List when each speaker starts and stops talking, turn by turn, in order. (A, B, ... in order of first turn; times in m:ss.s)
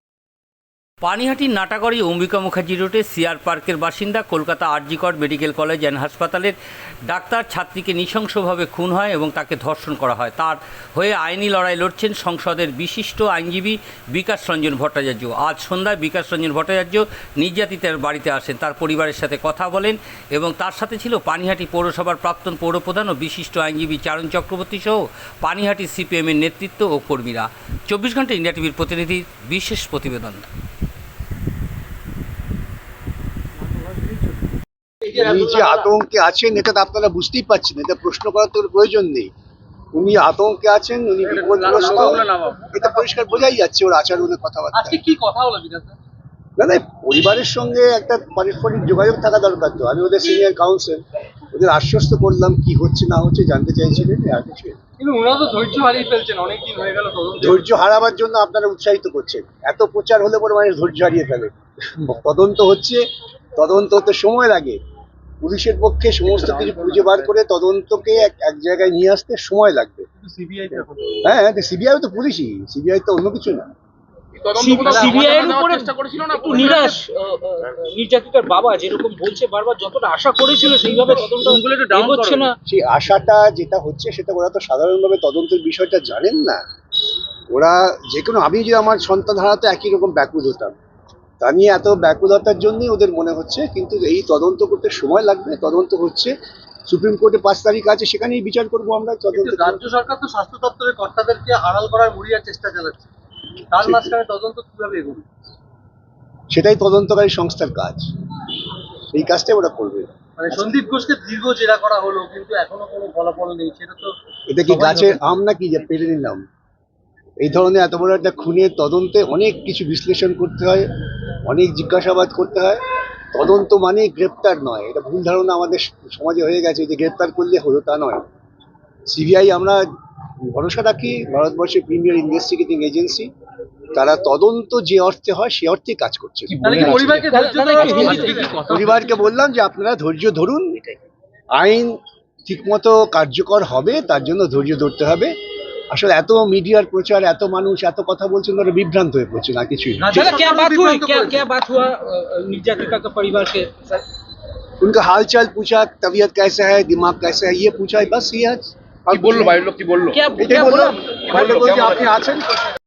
0:01.0-0:06.6 A
0:07.1-0:30.5 A
0:35.1-0:39.3 B
0:39.9-0:45.0 B
0:41.4-0:42.8 C
0:44.7-0:46.0 C
0:46.6-0:51.0 B
0:51.5-0:54.8 B
0:55.0-0:57.6 C
0:57.4-1:03.0 B
1:03.6-1:04.8 B
1:05.4-1:10.1 B
1:10.2-1:11.2 C
1:11.2-1:13.7 B
1:14.4-1:17.0 D
1:14.6-1:22.5 E
1:14.8-1:15.2 C
1:21.1-1:22.5 D
1:22.7-1:26.6 B
1:27.5-1:30.8 B
1:31.4-1:36.3 B
1:36.9-1:39.8 B
1:39.3-1:43.1 C
1:43.7-1:45.3 C
1:43.8-1:44.1 B
1:46.5-1:48.1 B
1:49.1-1:50.7 B
1:50.4-1:54.1 C
1:54.5-1:56.4 B
1:54.7-1:55.2 C
1:57.4-2:00.9 B
2:01.4-2:02.8 B
2:03.3-2:08.2 B
2:09.1-2:09.8 B
2:10.5-2:13.3 B
2:13.9-2:17.2 B
2:16.5-2:17.2 D
2:16.6-2:19.3 C
2:17.3-2:18.6 E
2:18.7-2:20.8 B
2:21.6-2:25.3 B
2:25.9-2:30.4 B
2:30.0-2:31.5 C
2:30.2-2:33.7 E
2:34.8-2:39.6 B
2:39.1-2:40.3 D
2:40.1-2:41.6 E
2:40.4-2:42.7 B
2:41.5-2:42.1 D